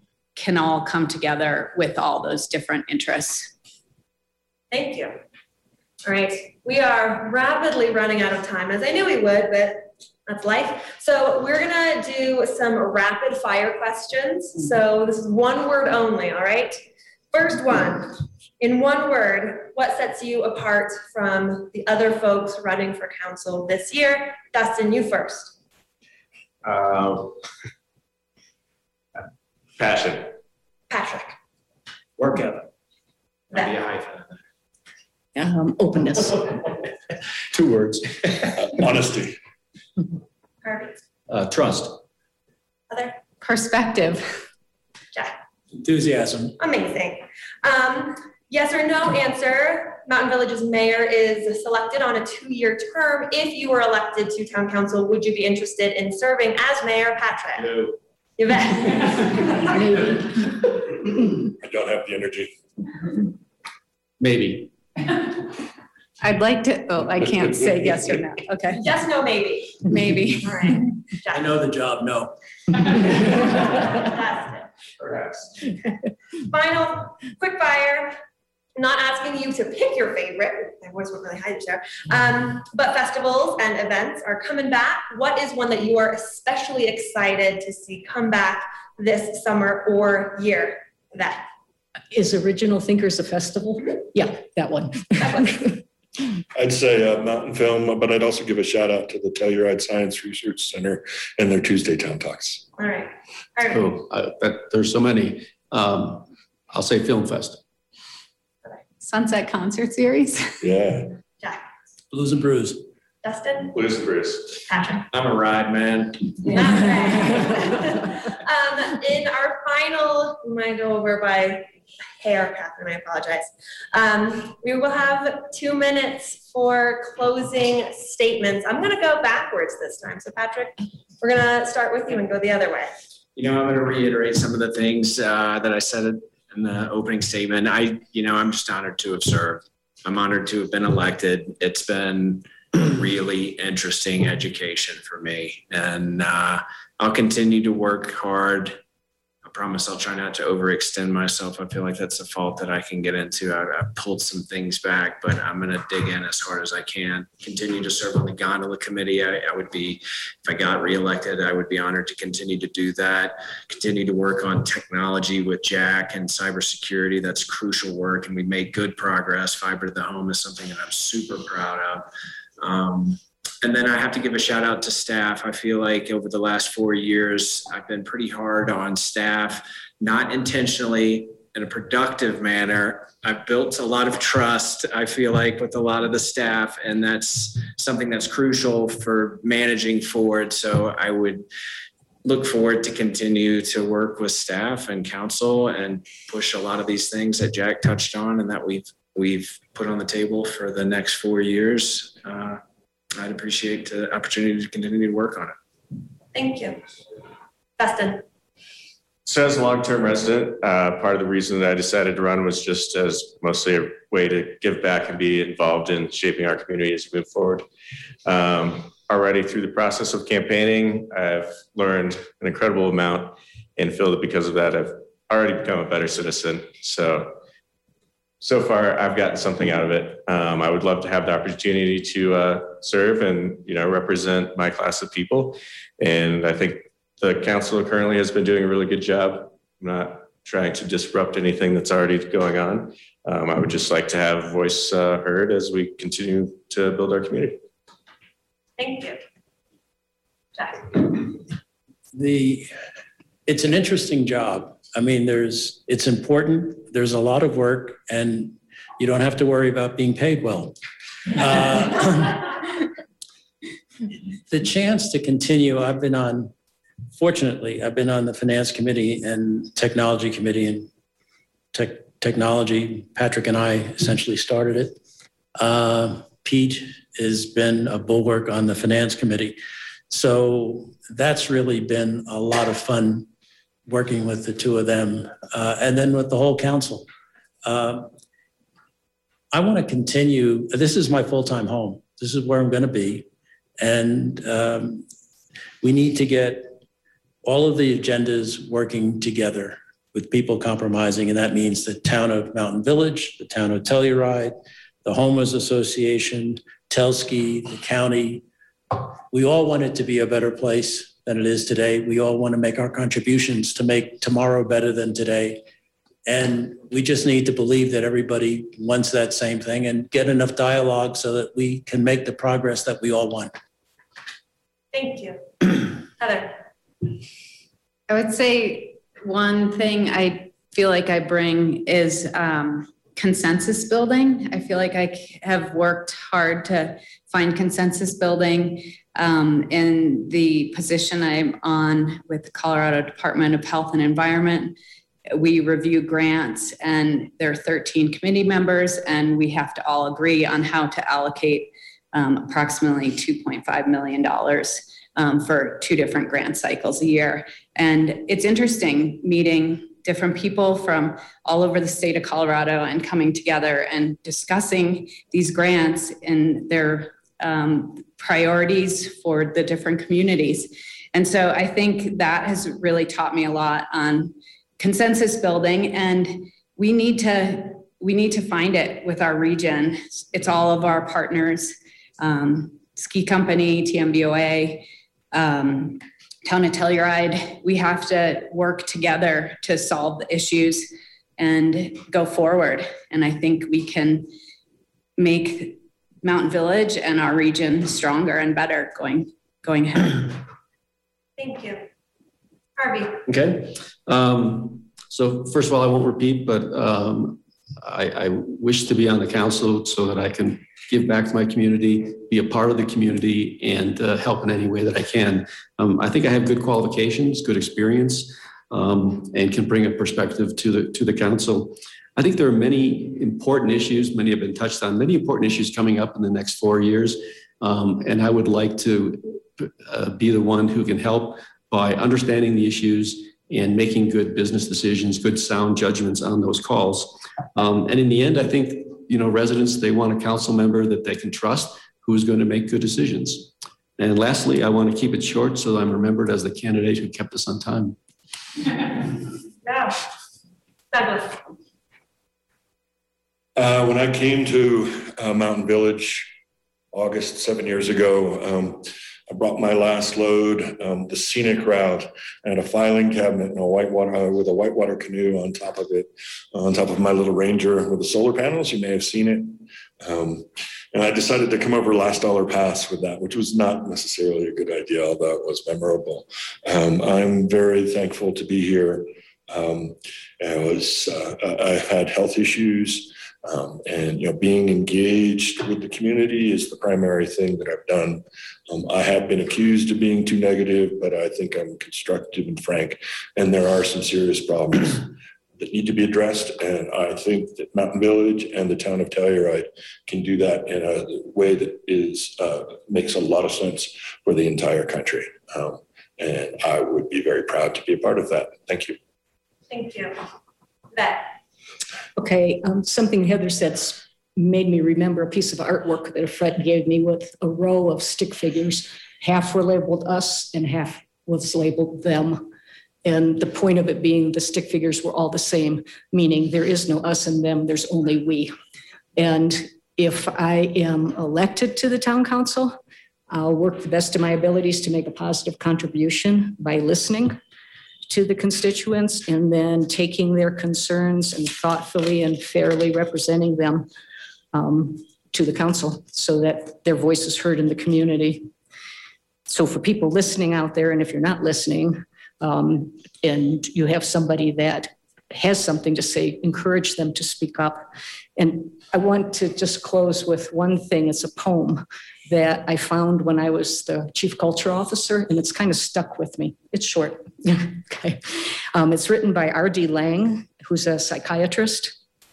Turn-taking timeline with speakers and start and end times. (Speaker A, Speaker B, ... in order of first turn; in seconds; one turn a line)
Speaker A: 0.3-3.5
Speaker B: 4.7-5.2
Speaker B: 6.0-16.8
Speaker B: 17.3-25.5
Speaker C: 26.6-27.4
Speaker C: 29.8-30.3
Speaker B: 30.9-31.4
Speaker D: 32.2-32.5
Speaker D: 33.5-34.4
Speaker E: 35.3-36.7
Speaker F: 37.5-38.7
Speaker G: 38.6-39.4
Speaker B: 40.6-41.0
Speaker F: 41.3-42.0
Speaker B: 42.9-43.2
Speaker A: 43.4-44.3
Speaker H: 45.8-46.5
Speaker B: 46.6-57.8
Speaker B: 58.4-60.3
Speaker G: 61.6-62.5
Speaker F: 64.2-64.7
Speaker A: 66.2-68.8
Speaker B: 68.8-69.8
Speaker A: 69.8-70.8
Speaker B: 70.4-71.5
Speaker H: 71.3-73.5
Speaker B: 73.8-74.7
Speaker B: 76.5-78.1
Speaker B: 78.8-91.5
Speaker E: 92.1-95.8
Speaker B: 95.2-95.6
Speaker G: 96.5-102.6
Speaker B: 102.8-103.9
Speaker F: 103.7-107.6
Speaker A: 109.0-110.6
Speaker G: 110.6-111.1
Speaker H: 112.1-112.8
Speaker B: 113.2-113.8
Speaker C: 113.8-114.6
Speaker B: 114.7-115.0
Speaker D: 115.1-116.3
Speaker B: 116.5-121.7
Speaker B: 122.2-132.9
Speaker D: 133.3-148.8
Speaker D: 149.4-172.1
Speaker D: 172.6-191.4
Speaker D: 192.2-202.6
Speaker D: 203.2-205.6
Speaker B: 206.3-206.8
Speaker B: 207.8-208.2
Speaker C: 209.2-217.7
Speaker C: 218.2-227.3
Speaker C: 228.4-247.6
Speaker B: 248.8-249.2
Speaker B: 250.6-251.3
Speaker H: 252.1-252.7
Speaker H: 253.4-260.8
Speaker H: 261.3-262.6
Speaker H: 264.5-266.5
Speaker H: 267.1-270.9
Speaker H: 271.7-275.0
Speaker H: 275.6-279.6
Speaker H: 280.1-283.3
Speaker H: 283.9-287.1
Speaker H: 287.6-288.1
Speaker H: 289.5-293.3
Speaker H: 293.8-295.1
Speaker H: 295.8-296.7
Speaker H: 297.4-315.6
Speaker H: 316.2-323.5
Speaker B: 324.9-326.6
Speaker A: 328.1-344.7
Speaker A: 345.3-394.3
Speaker A: 395.2-400.4
Speaker B: 401.4-401.8
Speaker B: 402.8-403.2
Speaker F: 403.2-447.9
Speaker B: 449.6-450.0
Speaker B: 450.9-451.4
Speaker G: 453.6-456.3
Speaker G: 456.9-509.0
Speaker B: 509.7-510.2
Speaker B: 510.9-511.3
Speaker E: 512.1-522.5
Speaker E: 523.0-528.5
Speaker E: 529.2-532.8
Speaker E: 533.3-537.4
Speaker E: 538.1-543.9
Speaker E: 544.5-548.5
Speaker E: 549.5-572.0